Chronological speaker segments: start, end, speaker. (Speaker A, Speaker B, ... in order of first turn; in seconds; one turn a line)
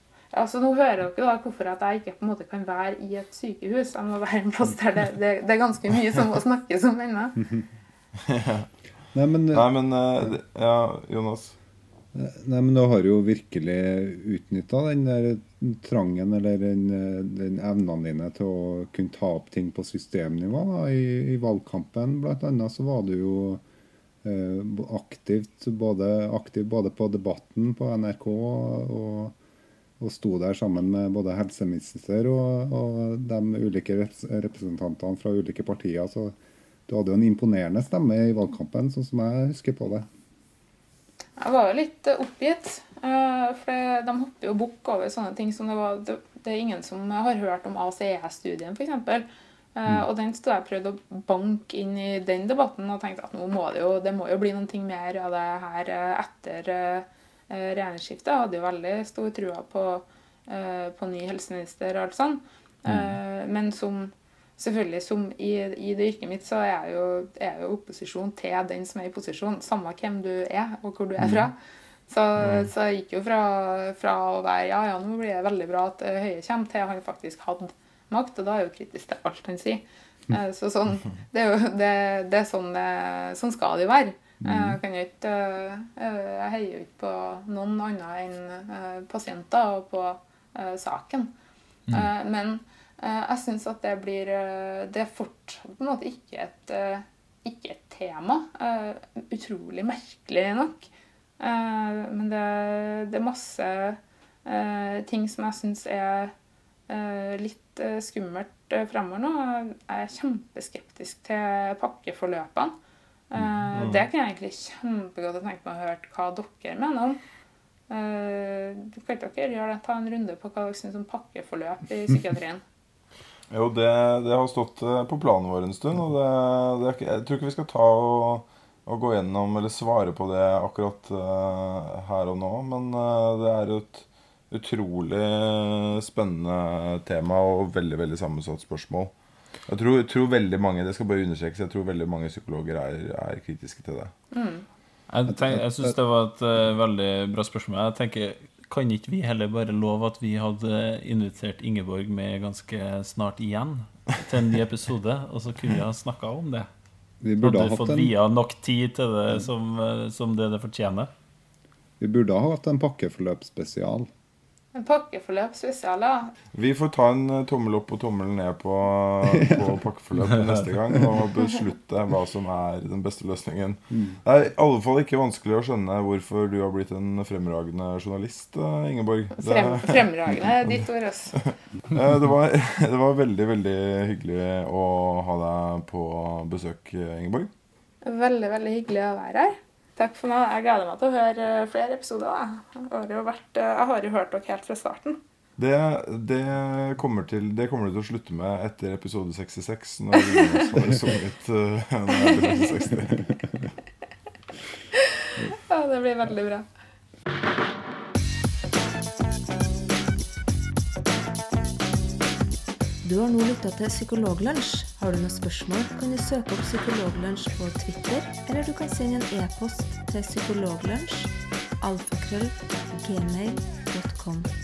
Speaker A: 0.3-7.4
Speaker B: 8.2-8.7
Speaker C: 9.1-9.7
Speaker B: 9.5-11.6
Speaker C: 12.1-23.6
Speaker C: 24.2-29.4
Speaker C: 30.0-36.4
Speaker C: 36.9-40.1
Speaker A: 41.4-71.5
Speaker A: 72.1-91.3
Speaker B: 72.4-72.7
Speaker C: 84.4-84.8
Speaker A: 91.9-100.9
Speaker A: 101.4-106.3
Speaker A: 106.9-112.7
Speaker A: 113.3-117.2
Speaker B: 113.7-114.0
Speaker A: 117.9-122.6
Speaker B: 123.5-139.1
Speaker B: 139.7-144.1
Speaker A: 144.3-144.6
Speaker D: 145.1-156.7
Speaker C: 145.3-145.9
Speaker C: 157.2-158.1
Speaker D: 157.4-161.1
Speaker C: 162.0-164.1
Speaker A: 164.7-166.3
Speaker B: 166.5-180.8
Speaker C: 169.3-169.7
Speaker A: 179.4-181.5
Speaker B: 181.4-187.5
Speaker A: 188.0-195.2
Speaker B: 195.6-203.3
Speaker A: 200.3-200.8
Speaker A: 202.3-202.9
Speaker A: 205.0-206.7
Speaker E: 213.0-224.5